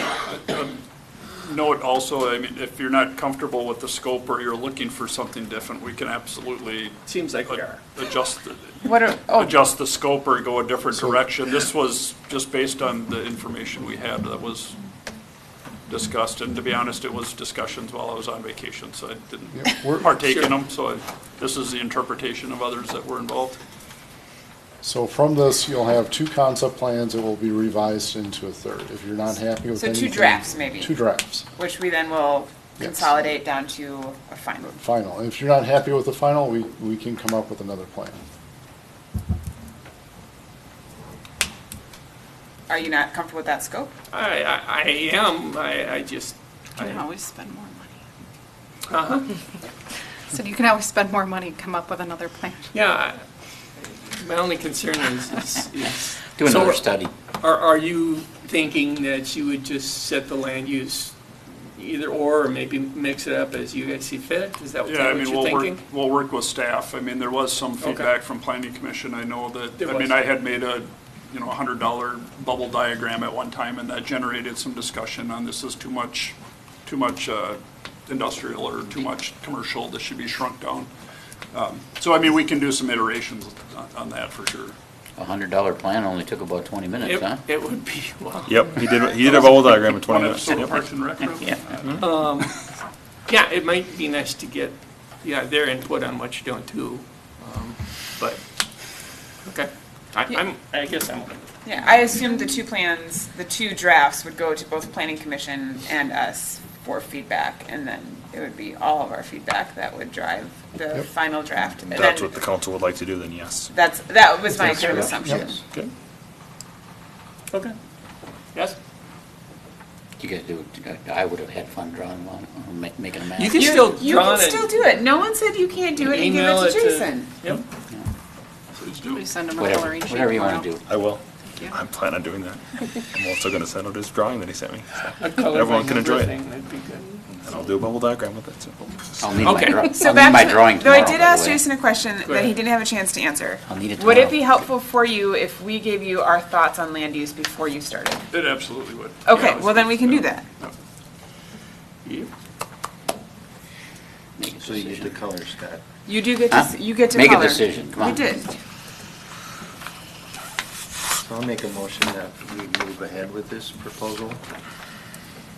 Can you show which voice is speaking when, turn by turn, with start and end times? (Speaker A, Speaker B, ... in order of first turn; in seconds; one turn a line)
Speaker A: 0.3-0.8
Speaker A: 1.4-7.0
Speaker B: 7.0-7.8
Speaker A: 7.5-14.8
Speaker C: 8.8-9.5
Speaker A: 15.9-23.6
Speaker D: 19.5-20.1
Speaker B: 20.2-20.5
Speaker D: 24.8-31.5
Speaker C: 29.8-31.0
Speaker C: 31.5-34.8
Speaker D: 32.8-33.2
Speaker D: 34.7-38.2
Speaker C: 42.7-43.9
Speaker B: 44.1-47.0
Speaker E: 46.8-47.9
Speaker B: 48.9-49.3
Speaker E: 50.3-52.7
Speaker B: 52.7-53.2
Speaker B: 53.8-56.8
Speaker F: 56.4-57.1
Speaker B: 57.4-61.1
Speaker B: 61.8-65.8
Speaker A: 64.8-80.9
Speaker B: 67.8-68.1
Speaker B: 69.8-70.2
Speaker A: 81.5-84.8
Speaker F: 85.2-87.4
Speaker B: 87.0-89.4
Speaker G: 88.5-90.8
Speaker A: 89.2-92.0
Speaker B: 91.5-92.6
Speaker B: 93.3-98.4
Speaker B: 99.4-101.4
Speaker C: 101.6-112.3
Speaker G: 111.8-113.7
Speaker C: 113.7-115.6
Speaker D: 114.7-115.4
Speaker G: 115.6-115.9
Speaker F: 120.2-123.7
Speaker B: 123.3-124.8
Speaker C: 123.5-127.3
Speaker B: 126.0-127.6
Speaker A: 128.8-129.3
Speaker E: 129.1-130.7
Speaker F: 129.6-130.8
Speaker G: 130.9-132.6
Speaker G: 133.1-136.3
Speaker B: 135.2-137.3
Speaker G: 137.3-138.8
Speaker F: 139.2-141.6
Speaker B: 139.4-140.0
Speaker C: 139.8-148.2
Speaker B: 142.2-142.6
Speaker F: 143.7-144.6
Speaker A: 148.3-150.7
Speaker C: 149.2-150.4
Speaker B: 152.0-152.3
Speaker F: 154.4-155.1
Speaker H: 154.6-155.8
Speaker C: 156.1-158.6
Speaker F: 156.5-158.2
Speaker H: 161.2-164.4